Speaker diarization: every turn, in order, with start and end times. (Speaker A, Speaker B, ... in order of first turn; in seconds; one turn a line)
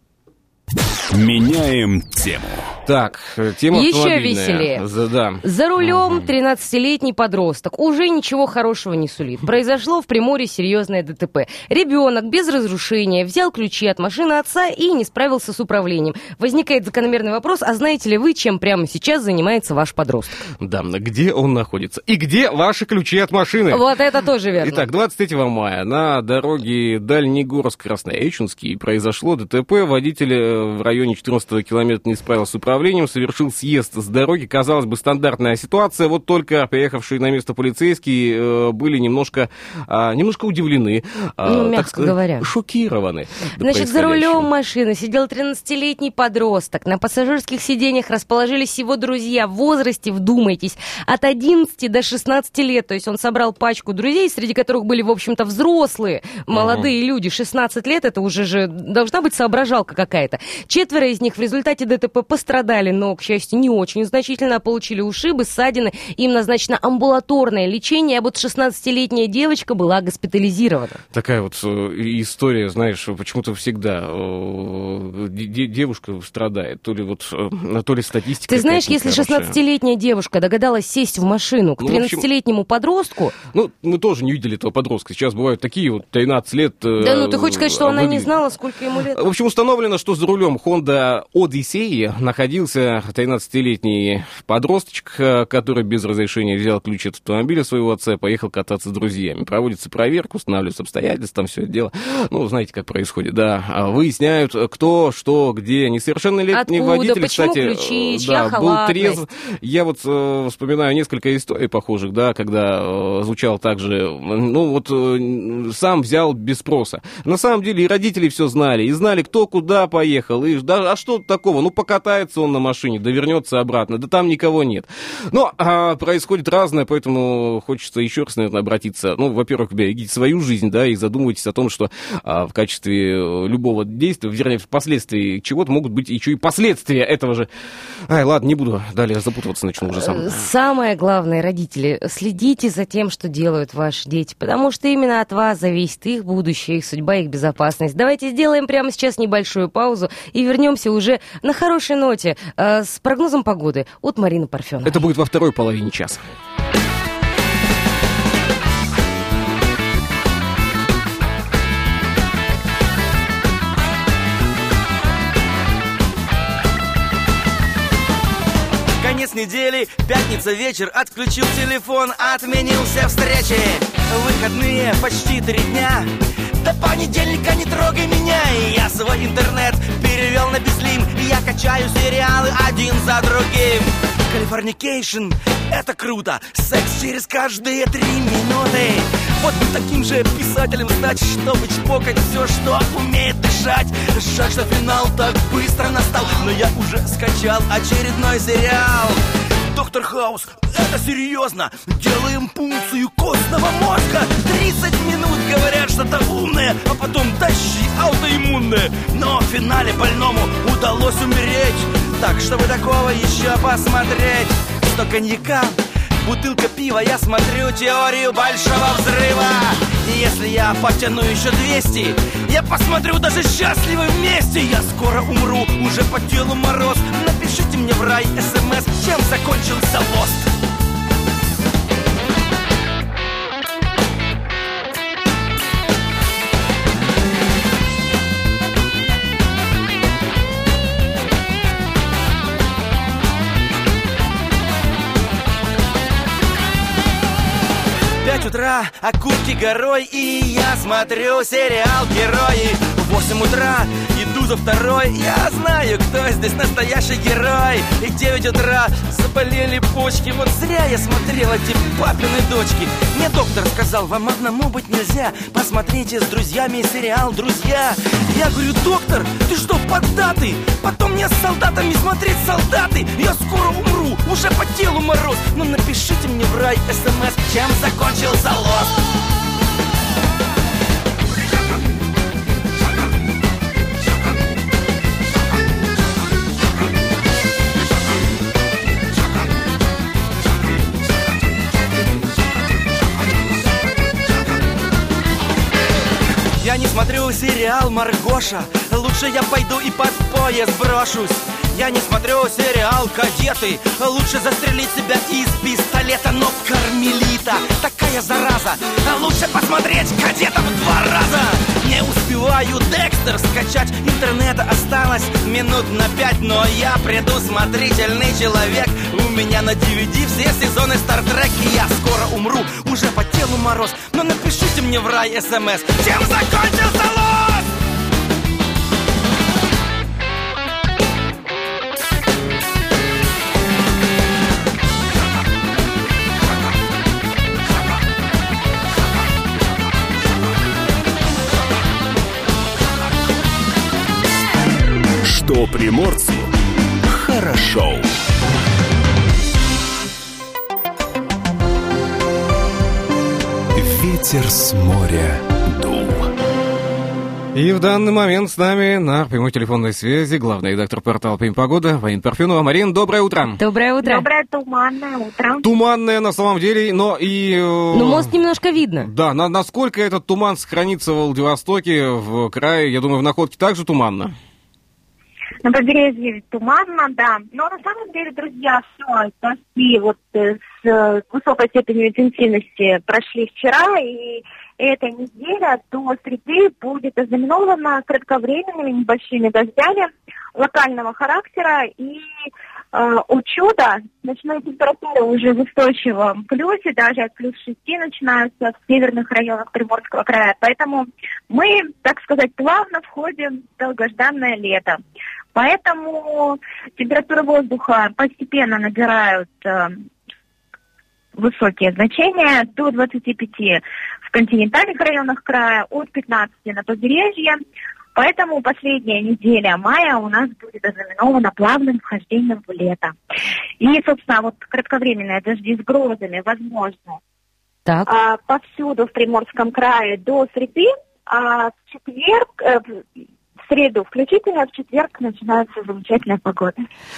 Speaker A: 1.1-2.7
Speaker B: 2.9-6.3
Speaker C: 3.7-4.8
Speaker C: 5.4-20.4
Speaker B: 20.6-23.9
Speaker C: 23.7-24.8
Speaker B: 24.6-44.5
Speaker C: 41.4-42.5
Speaker C: 43.6-71.0
Speaker B: 56.5-56.9
Speaker B: 71.1-79.6
Speaker C: 78.5-83.3
Speaker B: 81.8-82.2
Speaker B: 83.5-88.3
Speaker C: 87.0-89.2
Speaker B: 89.1-137.5
Speaker C: 106.5-109.2
Speaker B: 138.1-140.5
Speaker C: 139.9-155.0
Speaker B: 154.8-156.2
Speaker D: 169.0-230.5
Speaker D: 248.2-279.0
Speaker D: 296.6-327.7
Speaker A: 345.2-346.5
Speaker A: 347.4-348.0
Speaker A: 353.8-356.3
Speaker B: 357.5-363.6
Speaker C: 363.6-364.3
Speaker E: 364.0-365.6
Speaker B: 365.6-368.3
Speaker C: 367.9-369.1
Speaker B: 369.0-374.3
Speaker E: 375.6-392.3
Speaker E: 392.9-405.0
Speaker E: 405.5-410.0
Speaker E: 411.4-417.6
Speaker E: 418.1-423.1
Speaker E: 423.8-427.2
Speaker E: 428.1-433.0
Speaker E: 433.7-436.8